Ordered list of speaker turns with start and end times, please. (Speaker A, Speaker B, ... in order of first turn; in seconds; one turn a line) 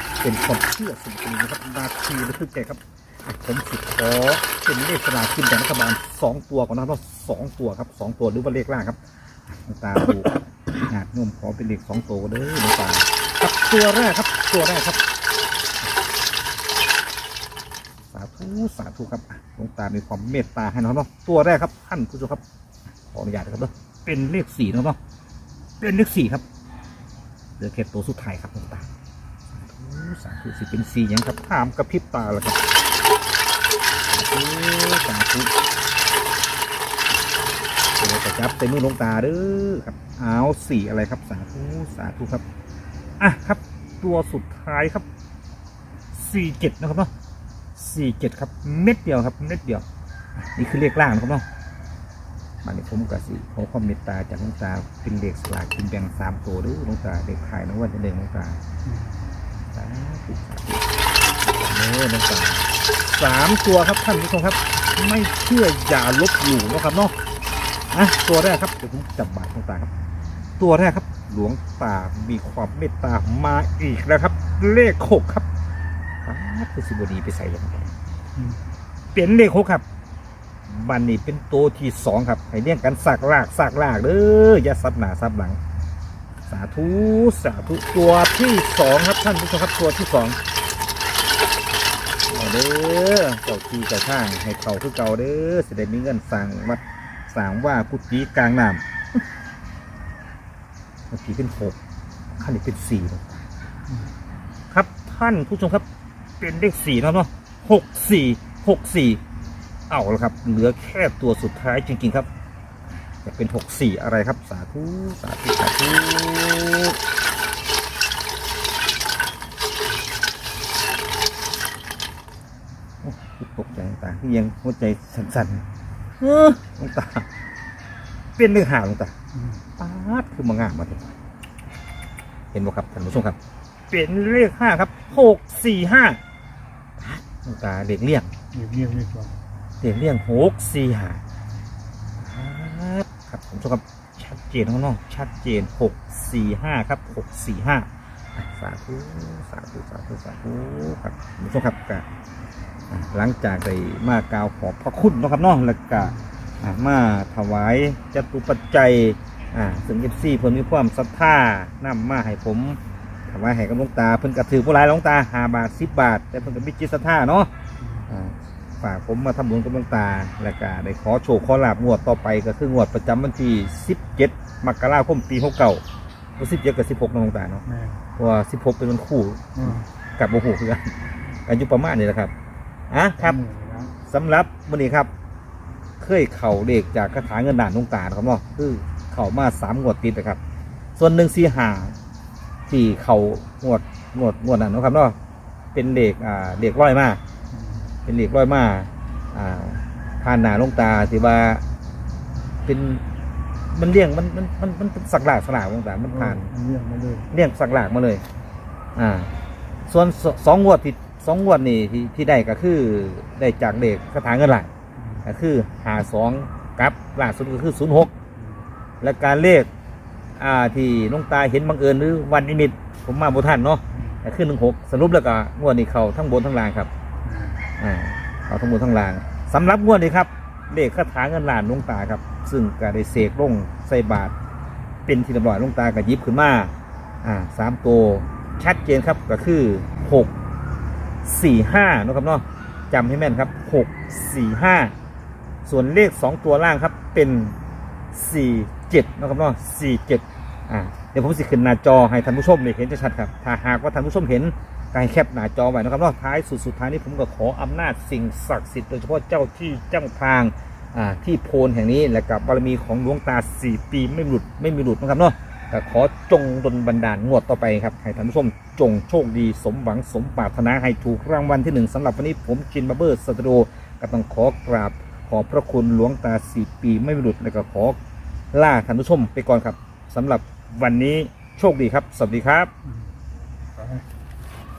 Speaker A: 0.2-9.0
Speaker A: 9.5-10.4
Speaker A: 10.9-15.0
Speaker A: 18.1-22.4
Speaker A: 23.1-25.0
Speaker A: 25.8-26.4
Speaker A: 27.6-28.9
Speaker A: 29.5-32.6
Speaker A: 34.1-35.5
Speaker A: 38.0-42.5
Speaker A: 43.2-45.1
Speaker A: 46.1-47.1
Speaker A: 47.8-49.9
Speaker A: 50.4-51.5
Speaker A: 52.6-58.6
Speaker B: 58.9-59.4
Speaker A: 59.7-60.9
Speaker A: 61.4-67.2
Speaker A: 67.9-69.9
Speaker A: 70.6-75.5
Speaker A: 76.2-78.0
Speaker A: 79.1-79.8
Speaker A: 80.7-85.6
Speaker A: 86.5-90.4
Speaker A: 92.3-99.2
Speaker A: 101.1-101.8
Speaker A: 102.4-103.5
Speaker A: 104.7-105.8
Speaker A: 106.4-109.2
Speaker A: 109.9-112.3
Speaker A: 113.2-117.0
Speaker A: 123.0-125.7
Speaker A: 126.2-127.3
Speaker A: 128.4-129.1
Speaker B: 129.3-129.6
Speaker A: 129.8-131.1
Speaker A: 132.5-133.4
Speaker A: 133.9-136.2
Speaker A: 137.0-138.3
Speaker B: 138.5-139.4
Speaker A: 139.8-141.2
Speaker A: 142.2-152.1
Speaker A: 152.9-167.5
Speaker B: 167.8-168.1
Speaker A: 168.1-175.8
Speaker A: 176.4-177.7
Speaker B: 177.7-178.0
Speaker A: 178.2-182.3
Speaker B: 179.6-179.9
Speaker A: 182.9-183.4
Speaker B: 183.2-183.9
Speaker A: 184.0-185.1
Speaker A: 186.0-190.4
Speaker A: 191.0-192.0
Speaker A: 192.7-195.2
Speaker A: 195.7-197.2
Speaker B: 197.5-197.9
Speaker A: 198.1-201.7
Speaker A: 202.7-203.0
Speaker A: 203.7-206.5
Speaker B: 206.1-207.3
Speaker A: 207.3-208.2
Speaker A: 209.0-209.3
Speaker A: 209.9-214.7
Speaker B: 215.0-215.2
Speaker A: 215.2-218.1
Speaker B: 218.4-218.6
Speaker A: 219.0-219.7
Speaker A: 220.4-226.9
Speaker B: 223.9-224.2
Speaker B: 227.2-227.6
Speaker A: 227.8-234.3
Speaker A: 235.1-240.3
Speaker A: 241.2-244.9
Speaker A: 245.7-247.6
Speaker A: 248.1-278.0
Speaker A: 278.5-282.7
Speaker B: 282.9-283.1
Speaker B: 283.8-284.1